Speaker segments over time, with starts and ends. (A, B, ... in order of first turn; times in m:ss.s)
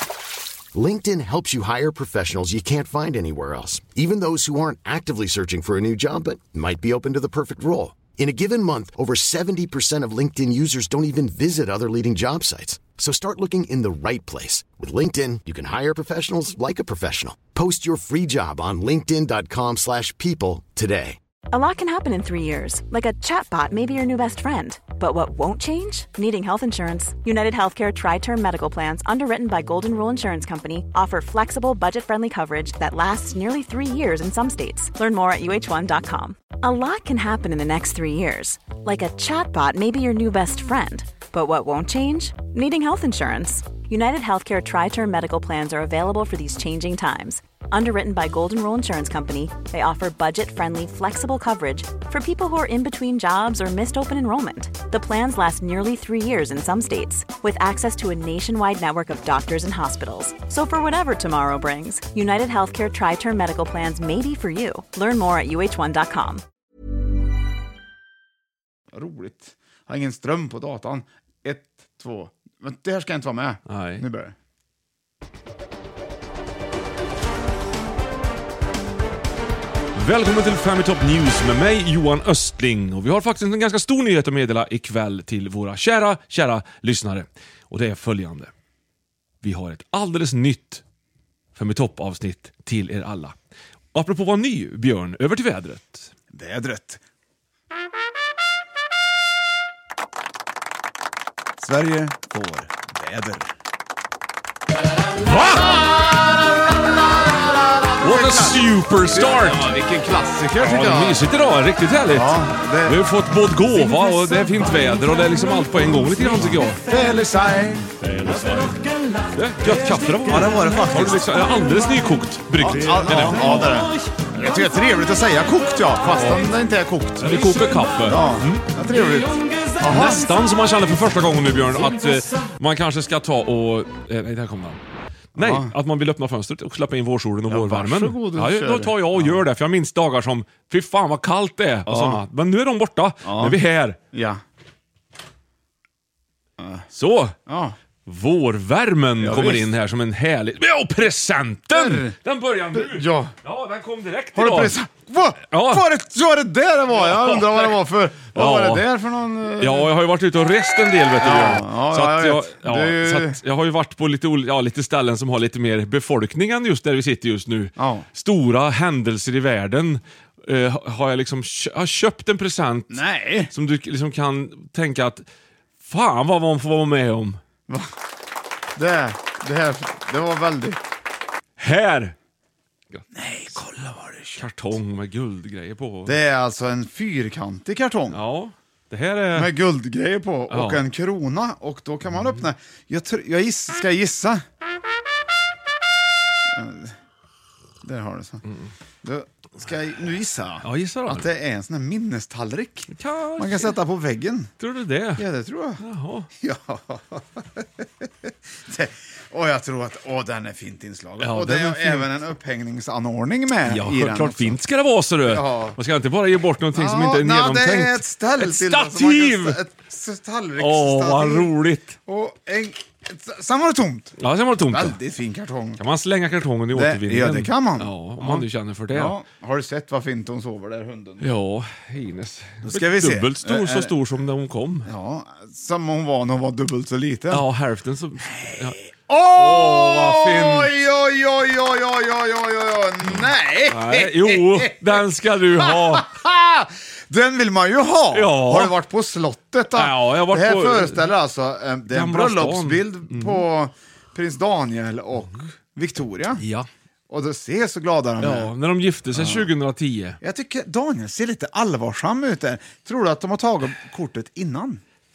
0:00.7-0:21.2 A
0:21.5-1:06.4 B
1:08.9-1:14.3 C
1:13.7-1:14.0 D
1:19.9-1:28.5 D
1:29.4-1:30.8 D
1:31.5-1:33.3 D
1:33.9-1:36.1 D
1:36.3-1:37.0 C
1:41.6-1:43.5 C
1:45.2-1:45.7 D
1:45.6-1:46.4 C
1:47.2-1:51.2 C
1:48.0-1:49.7 D
1:50.6-1:56.8 D
1:52.1-1:53.0 C
1:56.3-1:57.9 C
1:58.0-1:58.8 D
1:59.3-2:03.8 D
2:00.3-2:01.3 C
2:02.6-2:10.2 C
2:07.2-2:08.6 D
2:09.8-2:14.8 D
2:15.3-2:24.0 D
2:15.4-2:15.7 C
2:17.5-2:19.4 C
2:21.9-2:22.2 C
2:23.2-2:23.6 C
2:24.1-2:24.4 C
2:26.6-2:26.8 C
2:26.9-2:27.4 D
2:27.5-2:27.7 C
2:28.0-2:34.8 D
2:29.2-2:29.7 C
2:31.7-2:32.1 C
2:32.7-2:33.3 C
2:34.3-2:39.9 C
2:35.5-2:35.8 D
2:36.9-2:37.8 D
2:38.3-2:38.8 D
2:39.6-2:55.2 D
2:41.2-2:43.4 C
2:47.8-2:48.0 C
2:52.9-2:53.5 C
2:55.8-2:57.4 D
2:58.7-3:00.8 C
3:01.6-3:02.1 D
3:03.1-3:04.4 C
3:04.4-3:06.2 D
3:06.0-3:08.2 C
3:08.1-3:09.5 D
3:09.3-3:14.4 C
3:10.5-3:10.8 D
3:16.5-3:16.9 C
3:17.8-3:18.4 C
3:19.0-3:24.5 C
3:20.6-3:21.3 D
3:22.9-3:23.7 D
3:24.6-3:25.2 D
3:25.2-3:25.8 C
3:25.8-3:26.3 D
3:26.4-3:34.6 C
3:31.2-3:32.1 D
3:33.6-3:39.6 D
3:35.3-3:35.8 C
3:36.7-3:41.5 C
3:40.6-3:42.0 D
3:42.0-3:45.8 C
3:44.2-3:45.0 D
3:45.8-3:49.1 D
3:46.7-3:51.3 C
3:51.2-3:54.9 D
3:52.6-3:53.9 C
3:54.8-3:57.4 C
3:57.3-3:58.8 D
3:58.4-4:05.0 C
3:59.3-4:00.7 D
4:03.7-4:06.1 D
4:05.6-4:16.4 C
4:08.1-4:08.7 D
4:09.7-4:11.1 D
4:11.9-4:13.4 D
4:16.4-4:16.7 D
4:17.1-4:18.5 C
4:18.2-4:20.2 D
4:19.1-4:19.5 C
4:20.2-4:24.8 C